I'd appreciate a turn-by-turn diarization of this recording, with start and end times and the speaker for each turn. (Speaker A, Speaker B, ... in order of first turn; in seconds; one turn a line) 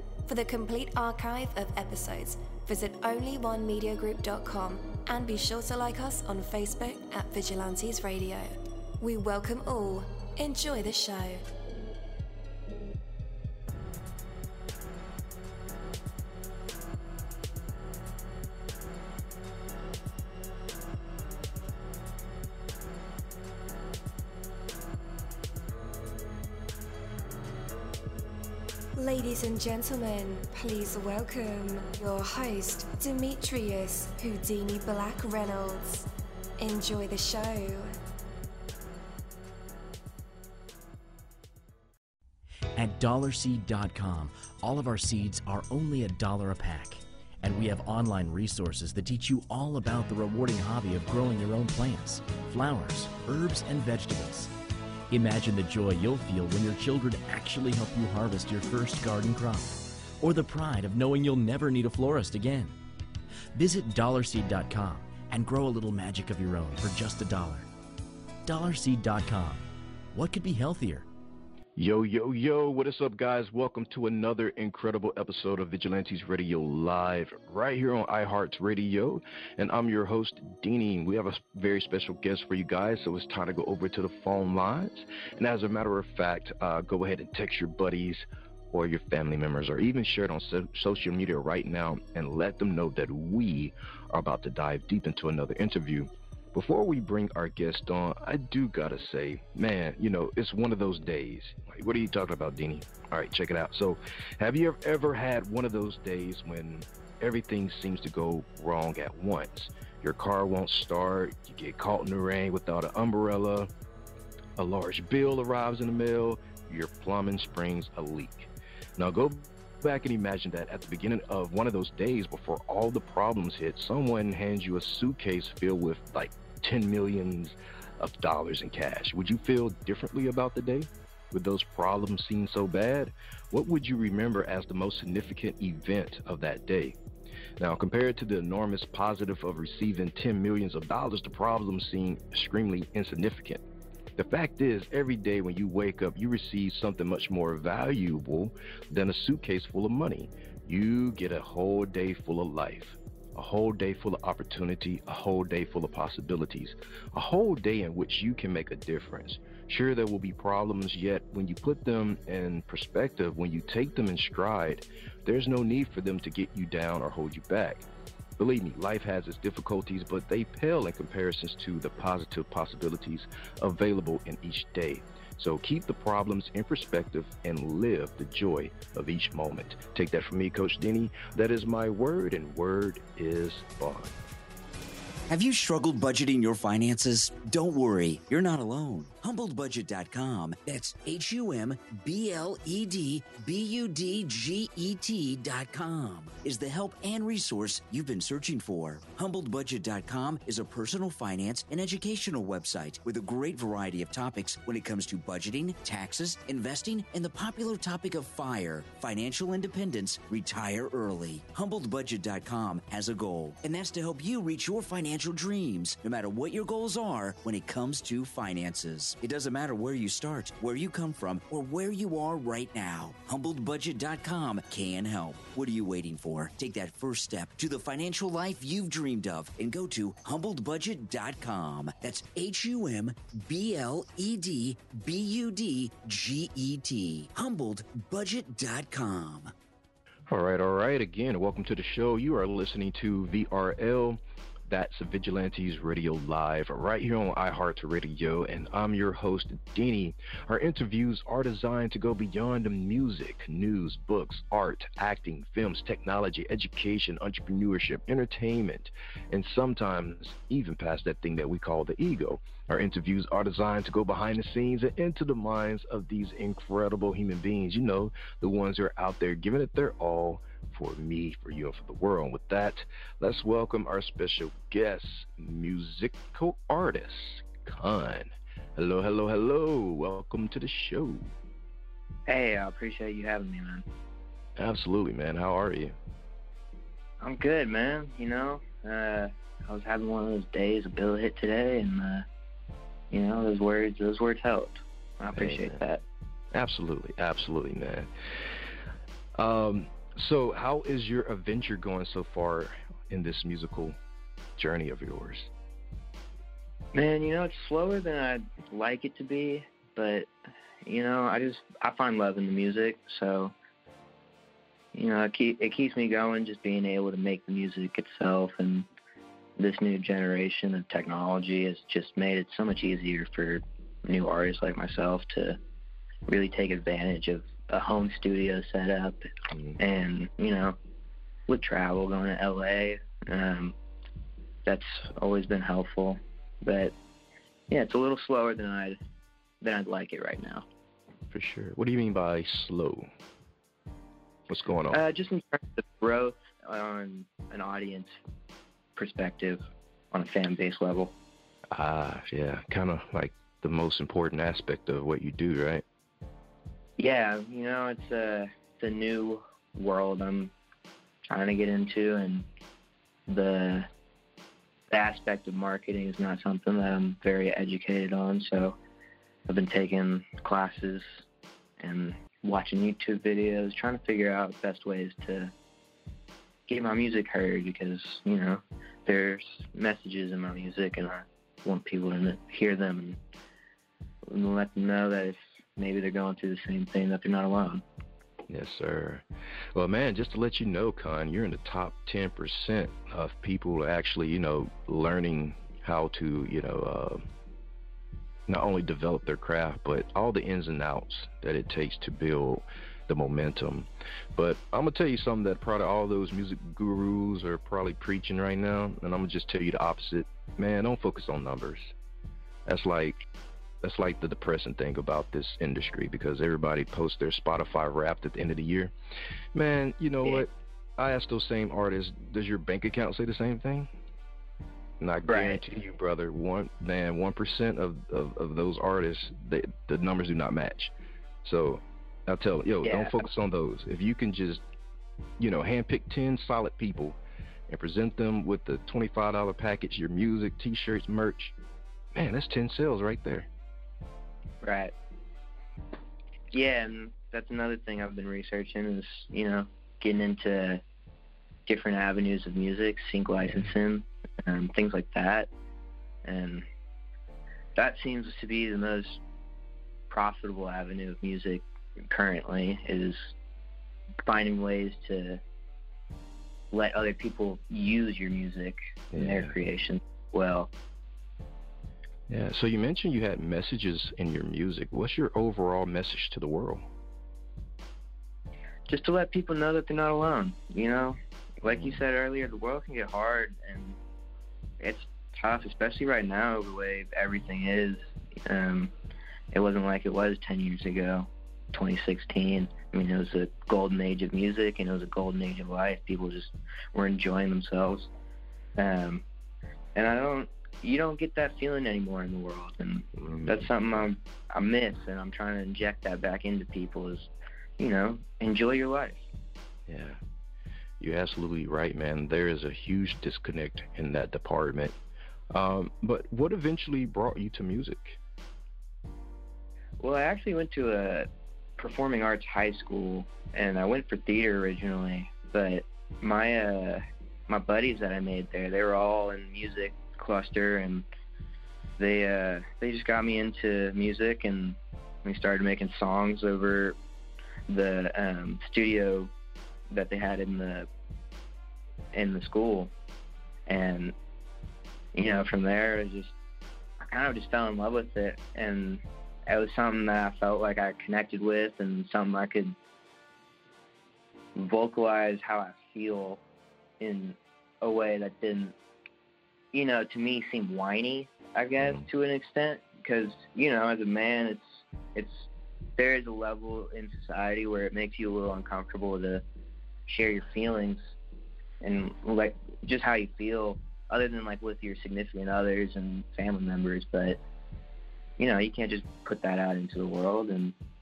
Speaker A: 0.3-11.5
Speaker A: 29.0-36.1
Speaker A: 36.6-38.0
Speaker B: 42.8-54.5
Speaker B: 55.1-62.8
Speaker B: 63.5-67.7
Speaker B: 68.5-71.1
Speaker C: 71.8-113.7
Speaker C: 114.6-137.0
Speaker C: 137.6-143.6
Speaker C: 144.2-167.8
Speaker C: 168.4-184.2
Speaker D: 185.3-239.5
Speaker C: 240.3-281.3
Speaker E: 282.3-283.9
Speaker C: 284.6-286.0
Speaker E: 287.2-292.3
Speaker E: 293.1-296.0
Speaker C: 295.4-295.8
Speaker C: 296.5-298.7
Speaker C: 299.4-304.0
Speaker C: 304.6-305.5
Speaker E: 306.9-310.3
Speaker E: 310.9-313.6
Speaker E: 314.9-318.9
Speaker E: 319.6-325.6
Speaker E: 326.3-329.2
Speaker E: 329.8-330.8
Speaker E: 331.5-333.8
Speaker E: 334.7-336.9
Speaker E: 337.7-339.0
Speaker E: 339.6-340.6
Speaker C: 341.3-343.1
Speaker C: 344.5-345.0
Speaker E: 344.9-348.1
Speaker E: 349.0-349.6
Speaker E: 350.1-351.1
Speaker C: 351.7-355.8
Speaker E: 357.0-360.5
Speaker E: 361.3-362.5
Speaker E: 363.3-363.9
Speaker E: 364.9-368.8
Speaker E: 369.5-371.2
Speaker E: 371.8-375.5
Speaker E: 376.7-383.2
Speaker E: 384.3-387.8
Speaker C: 388.5-397.3
Speaker C: 398.5-411.9
Speaker C: 412.7-413.2
Speaker C: 413.8-418.9
Speaker C: 419.5-423.9
Speaker C: 425.0-430.9
Speaker E: 425.3-425.6
Speaker C: 431.4-434.6
Speaker E: 432.8-433.2
Speaker C: 435.4-441.6
Speaker C: 442.1-443.5
Speaker E: 444.6-444.9
Speaker E: 446.5-450.8
Speaker E: 451.7-455.5
Speaker C: 453.4-453.7
Speaker E: 456.2-456.7
Speaker E: 457.8-459.2
Speaker E: 460.1-463.3
Speaker E: 464.2-465.4
Speaker E: 466.7-470.7
Speaker C: 469.1-469.5
Speaker C: 472.3-476.9
Speaker E: 478.9-484.0
Speaker C: 481.7-482.0
Speaker E: 484.8-488.9
Speaker E: 489.5-498.1
Speaker E: 498.8-499.2
Speaker E: 499.9-509.2
Speaker C: 503.2-504.1
Speaker C: 509.9-510.2
Speaker C: 511.0-515.0
Speaker C: 515.5-518.2
Speaker E: 520.0-531.1
Speaker E: 532.0-537.0
Speaker E: 537.7-539.3
Speaker E: 539.9-540.9
Speaker E: 542.1-542.9
Speaker E: 543.7-544.1
Speaker E: 545.1-546.3
Speaker E: 547.0-552.8
Speaker E: 554.5-556.4
Speaker E: 557.0-558.7
Speaker E: 559.7-569.4
Speaker C: 561.8-562.1
Speaker E: 570.1-571.0
Speaker E: 571.8-577.4
Speaker E: 578.4-580.8